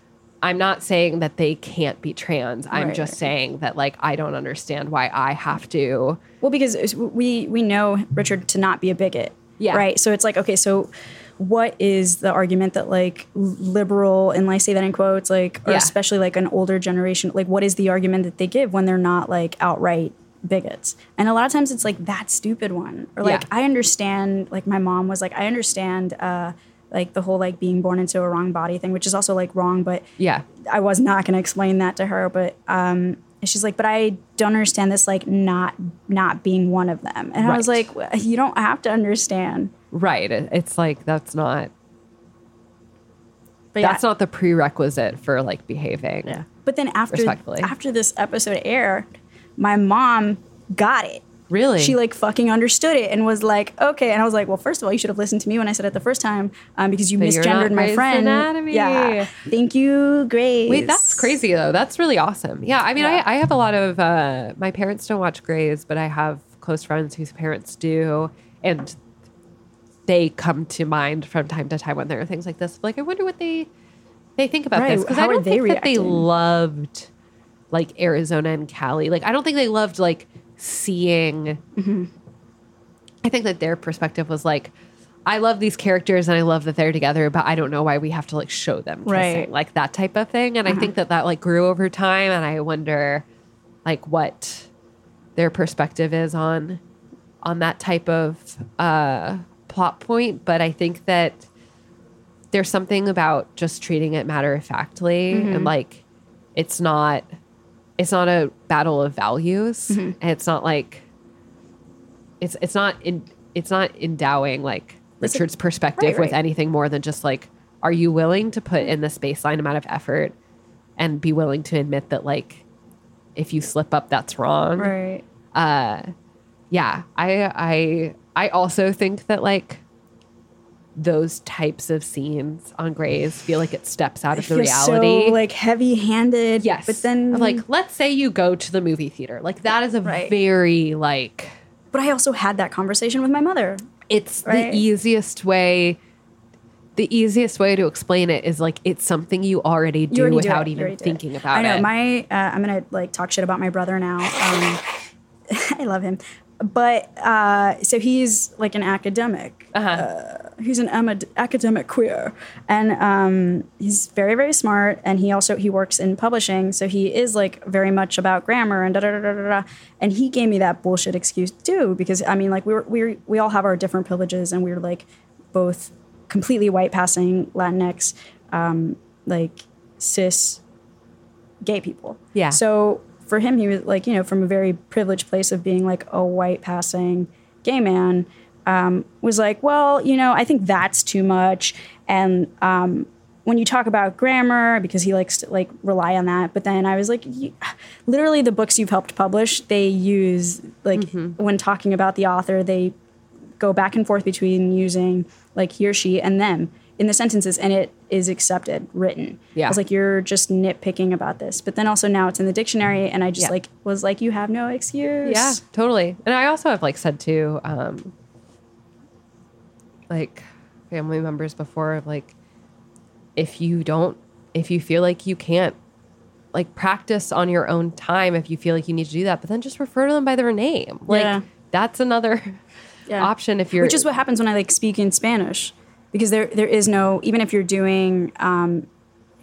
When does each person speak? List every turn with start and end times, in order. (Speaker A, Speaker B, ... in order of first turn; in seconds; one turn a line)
Speaker A: 0.4-6.2
Speaker B: 2.7-3.2
Speaker B: 6.4-30.1
Speaker A: 9.6-9.9
Speaker A: 15.7-15.9
Speaker A: 23.2-23.5
Speaker A: 30.2-30.4
Speaker B: 30.6-39.7
Speaker A: 37.4-37.9
Speaker A: 39.9-41.7
Speaker B: 43.7-44.0
Speaker A: 43.8-46.4
Speaker B: 46.3-51.3
Speaker A: 47.1-47.7
Speaker A: 51.5-52.0
Speaker B: 51.8-61.4
Speaker A: 57.2-59.4
Speaker A: 60.7-69.0
Speaker B: 63.0-63.2
Speaker A: 70.1-73.7
Speaker A: 74.4-77.1
Speaker B: 74.7-76.3
Speaker A: 77.7-81.6
Speaker B: 81.8-82.1
Speaker A: 83.2-84.7
Speaker A: 85.3-93.2
Speaker B: 89.1-89.5
Speaker B: 90.7-90.9
Speaker A: 93.8-94.7
Speaker A: 95.4-96.8
Speaker A: 97.4-101.5
Speaker A: 102.5-106.0
Speaker B: 105.3-105.7
Speaker A: 106.5-107.3
Speaker A: 108.0-111.0
Speaker B: 109.9-110.2
Speaker A: 112.4-120.3
Speaker B: 115.2-116.4
Speaker A: 121.0-122.6
Speaker A: 123.4-124.9
Speaker B: 124.8-125.3
Speaker A: 125.5-126.1
Speaker A: 126.7-129.8
Speaker A: 130.9-135.4
Speaker B: 134.3-137.6
Speaker A: 136.6-141.6
Speaker B: 140.0-140.3
Speaker B: 141.9-143.8
Speaker A: 144.1-146.0
Speaker B: 144.4-144.8
Speaker A: 146.9-151.9
Speaker B: 150.1-154.8
Speaker B: 155.5-180.6
Speaker A: 159.7-160.1
Speaker B: 181.6-202.9
Speaker A: 182.3-182.6
Speaker A: 200.9-201.4
Speaker B: 203.6-215.6
Speaker A: 209.6-209.8
Speaker A: 215.2-218.1
Speaker A: 220.1-222.3
Speaker A: 223.4-225.8
Speaker A: 226.5-232.6
Speaker B: 231.1-231.4
Speaker B: 233.1-238.9
Speaker A: 233.2-234.1